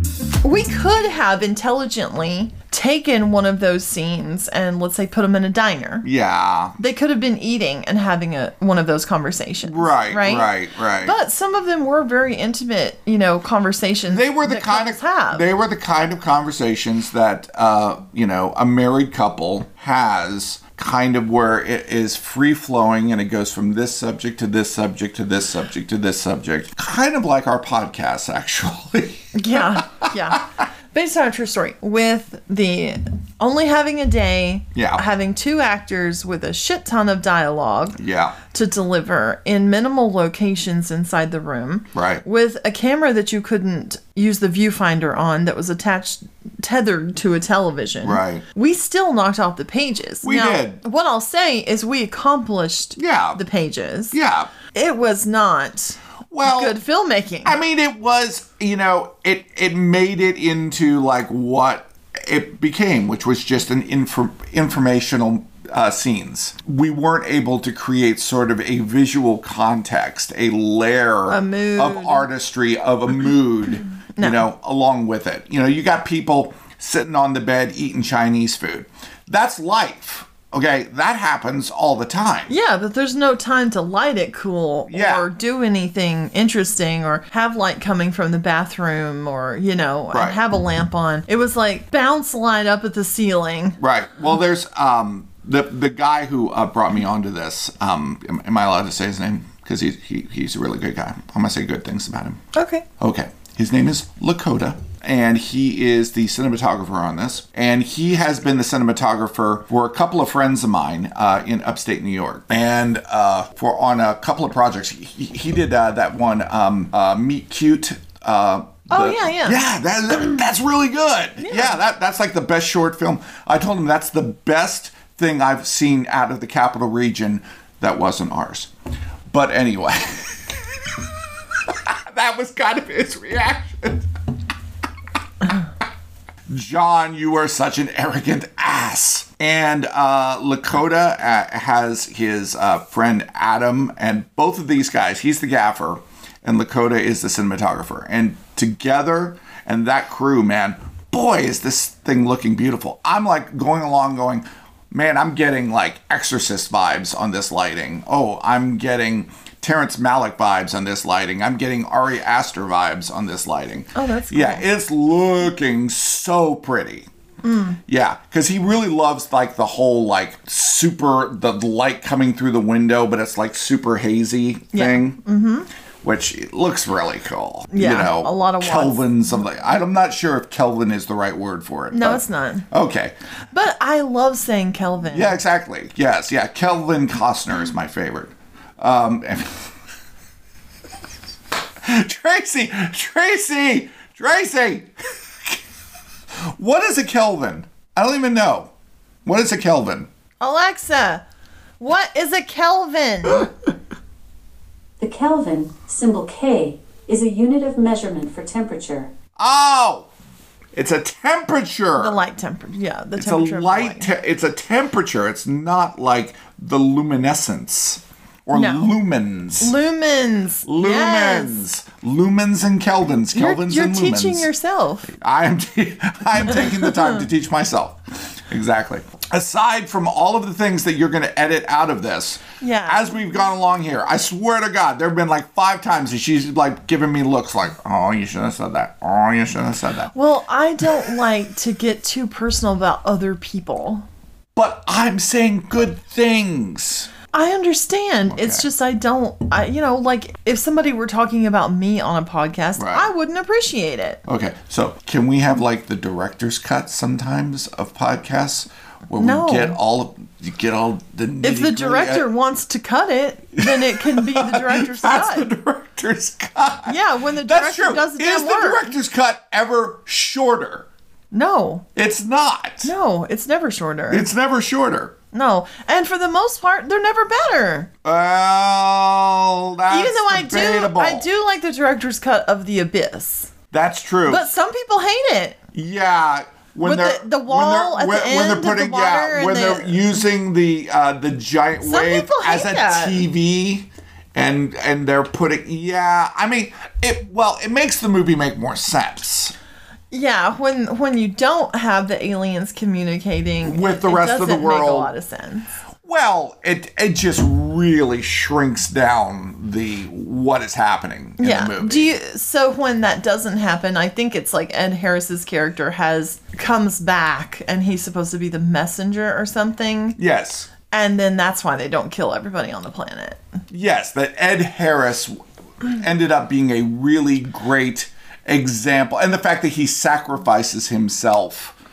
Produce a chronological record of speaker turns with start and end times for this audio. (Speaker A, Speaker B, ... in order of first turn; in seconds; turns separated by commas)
Speaker A: 0.4-6.1, Speaker B: 6.0-6.8, Speaker A: 6.8-15.4, Speaker B: 9.6-11.2, Speaker B: 14.1-30.4, Speaker A: 29.3-38.0, Speaker B: 34.7-35.0, Speaker B: 38.0-38.4, Speaker A: 38.5-54.2, Speaker B: 41.9-42.2, Speaker B: 48.0-48.4, Speaker B: 50.2-50.8, Speaker B: 53.0-53.4, Speaker B: 54.1-54.5, Speaker A: 54.7-57.6, Speaker B: 56.3-56.8, Speaker B: 57.4-82.5, Speaker A: 71.3-72.3, Speaker A: 74.2-74.5, Speaker A: 82.5-93.8, Speaker B: 84.9-85.2, Speaker B: 90.1-90.4, Speaker B: 93.8-102.4, Speaker A: 102.5-102.8, Speaker B: 103.0-128.7, Speaker A: 118.9-119.6, Speaker A: 121.4-121.8, Speaker B: 129.3-134.1, Speaker B: 136.5-167.1, Speaker A: 163.9-164.7, Speaker A: 167.4-167.8, Speaker B: 167.9-175.2, Speaker A: 174.7-175.7, Speaker B: 176.0-183.1, Speaker A: 177.7-179.1, Speaker A: 181.9-182.7, Speaker A: 183.5-185.4, Speaker B: 185.1-189.7, Speaker B: 191.8-195.6, Speaker B: 196.6-198.7, Speaker B: 199.2-200.1, Speaker A: 200.4-201.2, Speaker A: 201.8-203.5, Speaker C: 205.0-209.1, Speaker B: 209.4-210.1, Speaker B: 210.7-212.2, Speaker A: 211.9-214.1, Speaker B: 213.2-219.7, Speaker A: 218.5-218.9, Speaker A: 219.6-221.6, Speaker B: 220.7-224.5, Speaker A: 223.3-225.1, Speaker B: 225.1-240.1, Speaker A: 226.6-227.1, Speaker A: 232.6-233.2, Speaker A: 240.1-244.1, Speaker B: 244.6-247.1, Speaker A: 247.3-254.2, Speaker B: 248.3-248.7, Speaker B: 252.8-253.1, Speaker B: 254.2-262.3, Speaker A: 259.1-259.8, Speaker A: 261.4-265.5, Speaker B: 263.6-270.9, Speaker A: 266.9-268.9, Speaker A: 271.3-271.9, Speaker B: 271.9-272.9, Speaker A: 272.8-274.3, Speaker B: 274.1-275.1, Speaker A: 275.3-277.9, Speaker B: 278.0-281.2, Speaker A: 279.9-283.5, Speaker B: 283.7-284.5, Speaker A: 284.2-285.6, Speaker B: 285.7-299.5, Speaker A: 286.8-290.1, Speaker A: 291.8-293.2, Speaker A: 300.1-305.7, Speaker B: 303.6-305.1, Speaker B: 306.0-312.1, Speaker A: 311.4-320.2, Speaker B: 320.2-320.7, Speaker A: 320.9-323.4, Speaker B: 323.7-331.8